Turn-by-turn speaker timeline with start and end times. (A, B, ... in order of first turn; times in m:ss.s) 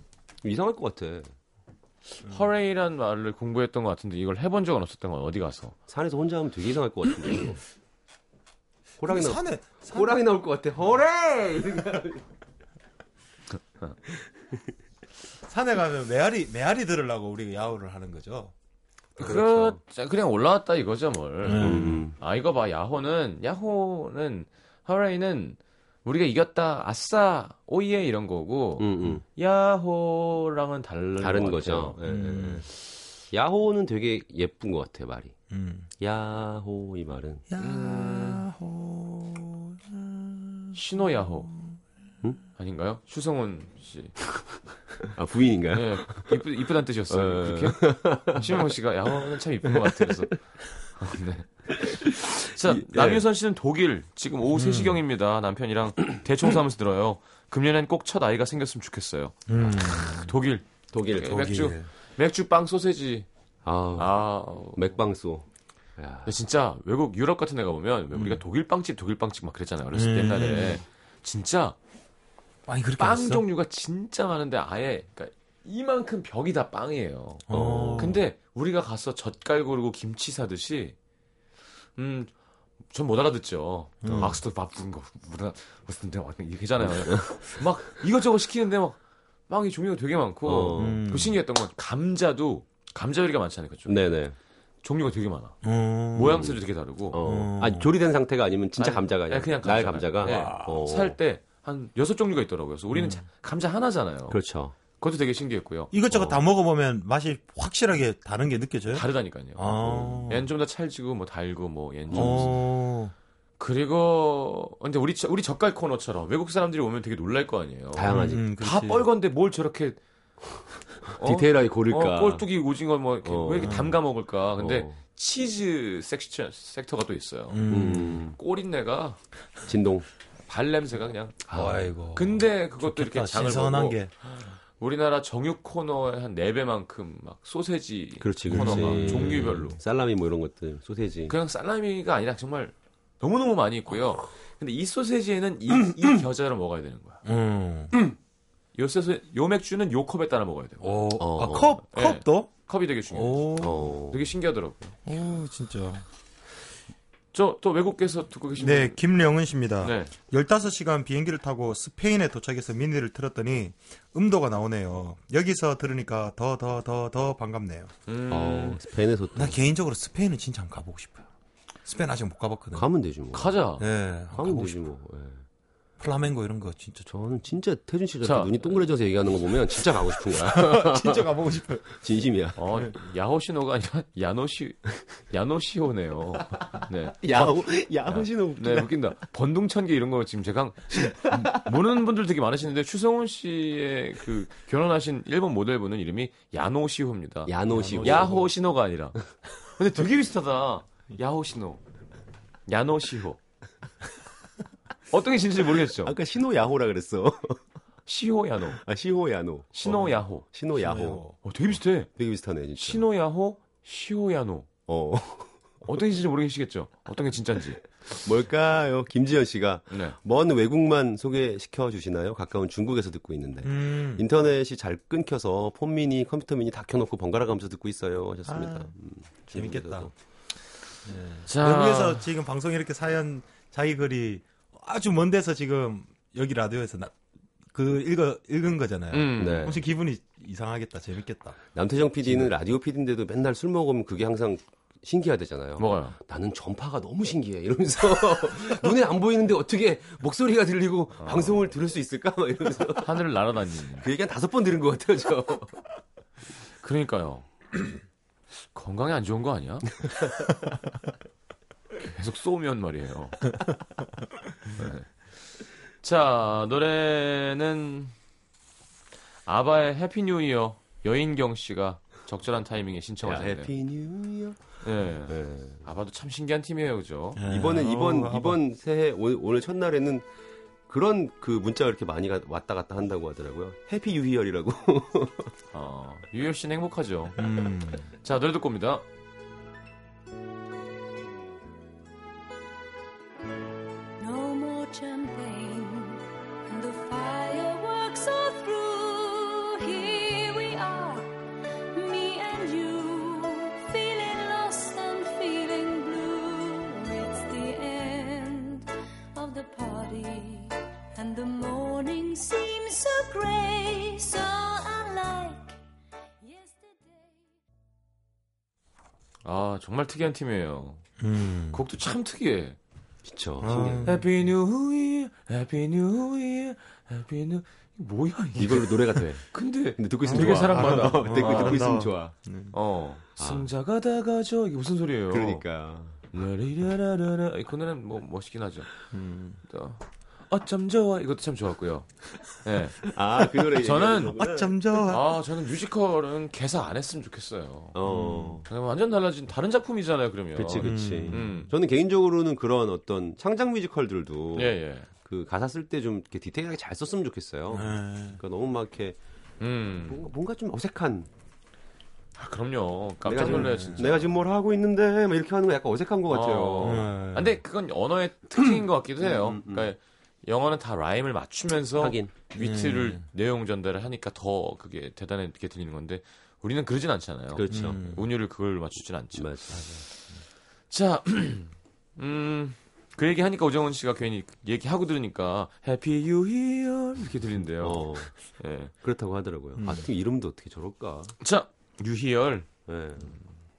0:00.4-0:01.3 A
0:02.2-0:05.8 B
0:05.9-0:07.6 A
0:09.0-0:12.2 A
0:09.0-0:10.2 C
0:15.5-0:18.5 C
0:19.2-0:19.8 A
0:19.2-0:32.0 B
0:21.4-0:22.1 C
0:21.6-0:22.2 A
0:28.8-0:29.2 A
0:31.2-0:32.7 A
0:32.0-0:32.7 C
0:33.3-0:35.4 A
0:35.5-0:35.9 C
0:36.0-0:37.4 A
0:37.5-0:41.8 C
0:37.6-0:38.4 B
0:40.7-0:41.5 B
0:42.6-0:44.2 B
0:45.0-0:46.4 A
0:45.7-0:50.4 B
0:47.1-0:48.6 A
0:49.7-0:50.2 A
0:50.9-1:03.3 B
0:51.7-0:53.2 A
0:54.5-0:55.0 C
0:59.5-1:00.4 C
1:00.9-1:01.5 A
1:01.2-1:01.9 C
1:03.6-1:05.5 A
1:04.0-1:05.0 B
1:06.0-1:06.3 A
1:06.2-1:11.8 B
1:09.9-1:10.8 C
1:12.7-1:13.4 C
1:13.0-1:21.0 B
1:17.5-1:18.2 C
1:17.5-1:18.2 A
1:22.0-1:22.3 B
1:22.9-1:29.0 B
1:24.0-1:24.4 C
1:24.1-1:24.4 A
1:26.8-1:27.5 A
1:29.5-1:34.1 B
1:30.4-1:31.0 A
1:30.8-1:31.4 C
1:33.9-1:34.4 A
1:34.8-1:35.6 B
1:35.6-1:36.5 C
1:36.2-1:37.2 B
1:36.2-1:36.6 A
1:37.1-1:41.2 A
1:37.2-1:37.9 C
1:38.8-1:44.4 B
1:40.2-1:40.8 C
1:42.9-1:43.2 C
1:44.3-1:44.8 A
1:44.9-1:46.2 B
1:45.9-1:50.5 C
1:48.9-1:52.6 B
1:49.8-1:50.2 A
1:52.1-1:52.6 A
1:52.1-1:53.1 C
1:53.6-2:00.0 B
1:57.9-1:58.5 A
1:58.1-1:59.1 C
2:01.1-2:02.4 A
2:01.2-2:07.7 B
2:03.2-2:03.9 A
2:03.6-2:03.9 C
2:04.6-2:05.0 A
2:07.5-2:08.3 C
2:07.7-2:08.4 A
2:08.3-2:09.2 B
2:09.7-2:10.1 A
2:10.5-2:11.4 B
2:11.5-2:11.9 A
2:11.5-2:14.1 C
2:12.1-2:14.0 B
2:14.8-2:19.8 B
2:18.2-2:21.4 A
2:18.5-2:19.6 C
2:21.3-2:27.2 B
2:27.2-2:28.0 C
2:28.8-2:31.0 B
2:30.8-2:32.5 C
2:31.2-2:31.8 A
2:31.9-2:35.0 B
2:33.1-2:34.0 C
2:33.6-2:34.3 A
2:35.1-2:36.1 C
2:37.3-2:39.0 B
2:38.6-2:47.9 C
2:39.8-2:40.1 B
2:48.1-2:48.8 B
2:48.3-2:49.6 A
2:49.4-2:51.3 C
2:51.8-2:52.9 C
2:52.7-2:53.6 A
2:53.3-2:53.9 B
2:53.8-2:54.9 C
2:54.3-2:55.4 A
2:56.0-2:57.0 C
2:57.0-3:01.3 A
2:58.2-2:58.9 B
3:00.3-3:01.9 C
3:01.9-3:02.6 A
3:02.6-3:19.2 B
3:07.2-3:08.9 A
3:17.5-3:18.5 A
3:17.7-3:18.3 C
3:19.8-3:21.8 B
3:22.7-3:23.4 B
3:25.1-3:26.1 B
3:26.0-3:27.6 A
3:28.1-3:28.8 B
3:28.8-3:31.2 A
3:29.7-3:30.5 B
3:30.8-3:31.4 C
3:31.4-3:32.1 B
3:32.2-3:33.0 A
3:32.8-3:34.7 B
3:34.9-3:35.7 A
3:35.8-3:37.8 B
3:38.1-3:50.1 A
3:39.9-3:40.2 B
3:43.6-3:44.2 C
3:48.5-3:48.9 C
3:49.5-3:50.1 C
3:51.0-3:57.1 C
3:51.5-3:52.2 B
3:57.7-4:01.6 C
3:59.1-3:59.8 B
3:59.4-3:59.8 A
4:01.7-4:13.2 A
4:02.2-4:02.5 C
4:05.8-4:06.2 B
4:11.2-4:11.7 B
4:13.0-4:14.1 B
4:14.0-4:15.8 A
4:16.8-4:17.5 B
4:18.6-4:20.0 B
4:22.0-4:23.5 B
4:24.7-4:25.1 B
4:26.0-4:28.1 B
4:29.5-4:33.7 B
4:33.2-4:35.8 A
4:34.8-4:37.4 B
4:37.4-4:38.6 C
4:37.5-4:40.3 A
4:40.9-4:45.5 A
4:45.7-4:47.5 B
4:47.4-4:48.0 C
4:48.1-4:49.0 B
4:54.2-5:01.4 D
5:01.9-5:15.8 D
5:16.4-5:17.4 D
5:19.4-5:21.0 B
5:21.2-5:21.8 C
5:21.7-5:22.8 B
5:23.2-5:24.1 A
5:23.6-5:24.2 C
5:24.0-5:31.9 B
5:28.6-5:32.3 A
5:30.2-5:32.7 C
5:32.7-5:35.6 B
5:33.4-5:33.7 A
5:35.3-5:36.2 A
5:36.3-5:38.9 B
5:39.1-5:39.6 C
5:39.7-5:43.1 B
5:43.1-5:44.8 A
5:43.6-5:44.4 B
5:44.4-5:45.4 C
5:45.1-5:48.0 B
5:47.9-5:48.7 A
5:48.0-5:48.6 C
5:48.7-5:51.7 B
5:50.6-5:59.2 A
5:50.8-5:51.7 C
5:54.6-5:55.1 B
5:57.7-5:58.4 C
5:59.6-6:00.3 B
6:00.0-6:01.3 A
6:02.4-6:04.3 B
6:03.2-6:07.1 A
6:03.3-6:04.2 C
6:06.3-6:20.3 B
6:06.8-6:07.6 C
6:09.2-6:09.9 A
6:12.0-6:12.3 A
6:12.6-6:13.2 C
6:17.5-6:18.0 A
6:17.7-6:18.3 C
6:19.4-6:20.1 A
6:20.9-6:28.9 B
6:27.8-6:28.3 A
6:28.9-6:31.3 A
6:29.8-6:30.1 C
6:31.4-6:32.7 B
6:32.9-6:33.4 A